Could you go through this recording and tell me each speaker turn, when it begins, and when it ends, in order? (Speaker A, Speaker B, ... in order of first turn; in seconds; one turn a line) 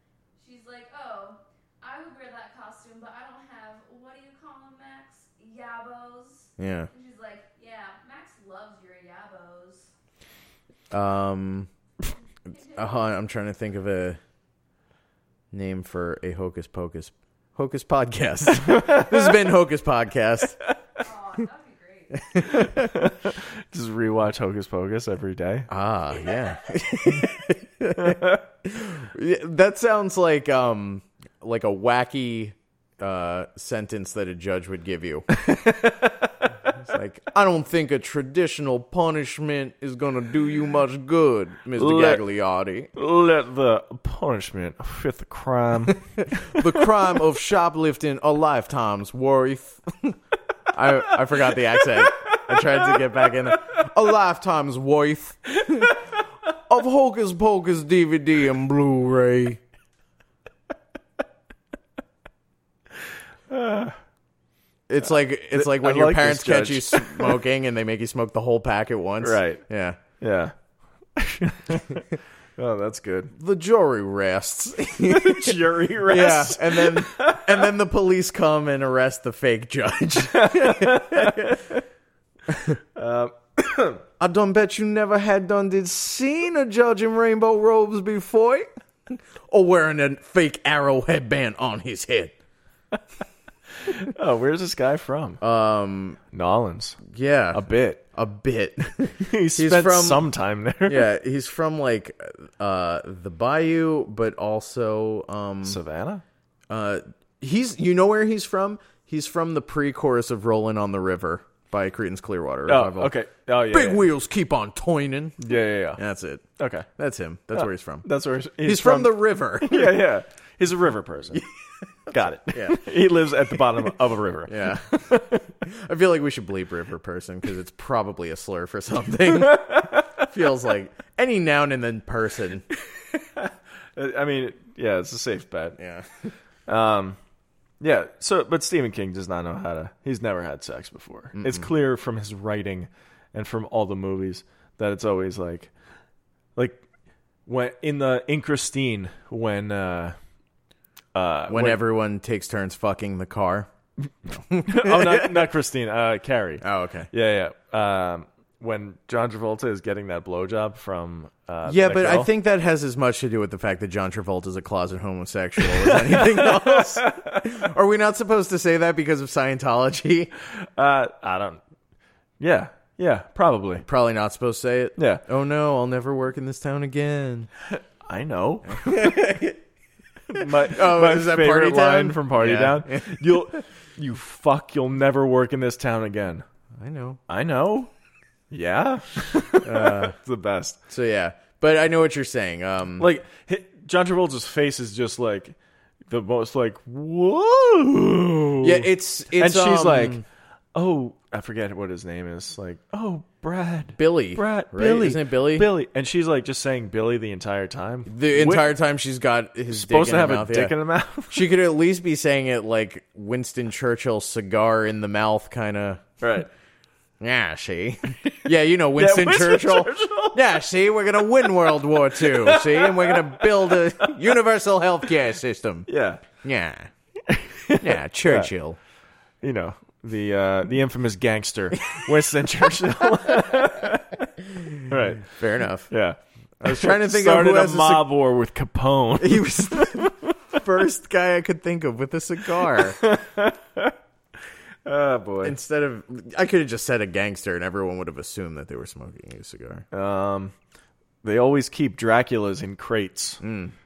Speaker A: 0.4-9.9
Speaker B: 6.6-6.9
Speaker B: 10.9-11.7
Speaker A: 12.5-13.1
Speaker B: 12.7-14.2
Speaker B: 15.5-20.6
Speaker A: 21.0-22.6
Speaker B: 22.3-22.9
Speaker C: 22.4-25.7
Speaker B: 25.7-35.3
Speaker C: 28.0-28.4
Speaker C: 35.3-36.3
Speaker B: 36.8-42.9
Speaker C: 41.8-42.2
Speaker C: 42.9-46.6
Speaker B: 46.2-50.2
Speaker B: 50.7-59.6
Speaker C: 52.4-52.7
Speaker C: 63.5-64.0
Speaker B: 64.9-70.0
Speaker C: 65.5-67.4
Speaker C: 69.2-69.6
Speaker C: 70.2-70.5
Speaker C: 71.2-72.0
Speaker C: 72.6-73.3
Speaker B: 73.3-81.6
Speaker C: 75.1-77.6
Speaker C: 80.3-81.8
Speaker B: 82.5-82.8
Speaker C: 83.0-84.0
Speaker B: 84.2-92.3
Speaker C: 93.8-95.4
Speaker B: 95.4-96.2
Speaker C: 96.3-98.0
Speaker B: 97.0-100.3
Speaker C: 99.2-101.1
Speaker B: 100.8-105.8
Speaker C: 105.6-106.2
Speaker B: 106.7-113.1
Speaker C: 112.7-114.0
Speaker B: 113.7-118.0
Speaker C: 115.4-116.0
Speaker C: 116.6-116.9
Speaker C: 117.5-121.4
Speaker B: 118.6-120.0
Speaker B: 122.1-122.8
Speaker C: 122.1-125.5
Speaker B: 124.5-125.0
Speaker B: 125.6-132.6
Speaker C: 129.5-130.2
Speaker C: 133.3-135.8
Speaker B: 135.8-136.1
Speaker C: 136.7-137.2
Speaker C: 137.8-145.7
Speaker B: 141.3-141.7
Speaker C: 146.6-146.8
Speaker C: 147.4-150.2
Speaker C: 151.1-151.8
Speaker B: 151.5-153.7
Speaker B: 154.3-155.4
Speaker C: 154.6-162.3
Speaker B: 156.6-157.1
Speaker B: 161.6-170.3
Speaker C: 165.6-167.5
Speaker C: 170.4-171.6
Speaker C: 172.4-173.8
Speaker B: 173.8-177.5
Speaker C: 175.0-175.2
Speaker C: 177.7-179.2
Speaker B: 178.7-179.6
Speaker C: 180.3-186.4
Speaker B: 180.3-183.3
Speaker B: 186.8-187.2
Speaker C: 187.3-187.9
Speaker C: 188.5-190.8
Speaker B: 189.6-190.1
Speaker B: 190.9-193.1
Speaker C: 193.0-195.5
Speaker C: 196.1-200.2
Speaker B: 198.6-200.2
Speaker C: 200.7-208.7
Speaker B: 204.0-205.7
Speaker B: 208.1-210.8
Speaker C: 209.7-211.5
Speaker B: 211.3-216.0
Speaker C: 216.2-216.5
Speaker B: 217.2-226.9
Speaker C: 218.9-220.5
Speaker C: 222.1-224.1
Speaker C: 225.9-226.2
Speaker C: 227.3-228.5
Speaker B: 227.8-228.8
Speaker C: 229.4-234.3
Speaker C: 234.8-235.3
Speaker B: 235.2-235.9
Speaker C: 235.9-240.4
Speaker B: 236.6-238.1
Speaker B: 239.2-243.0
Speaker C: 242.7-243.9
Speaker C: 244.8-245.6
Speaker B: 245.4-249.8
Speaker C: 249.9-250.5
Speaker C: 251.2-253.4
Speaker B: 253.4-253.7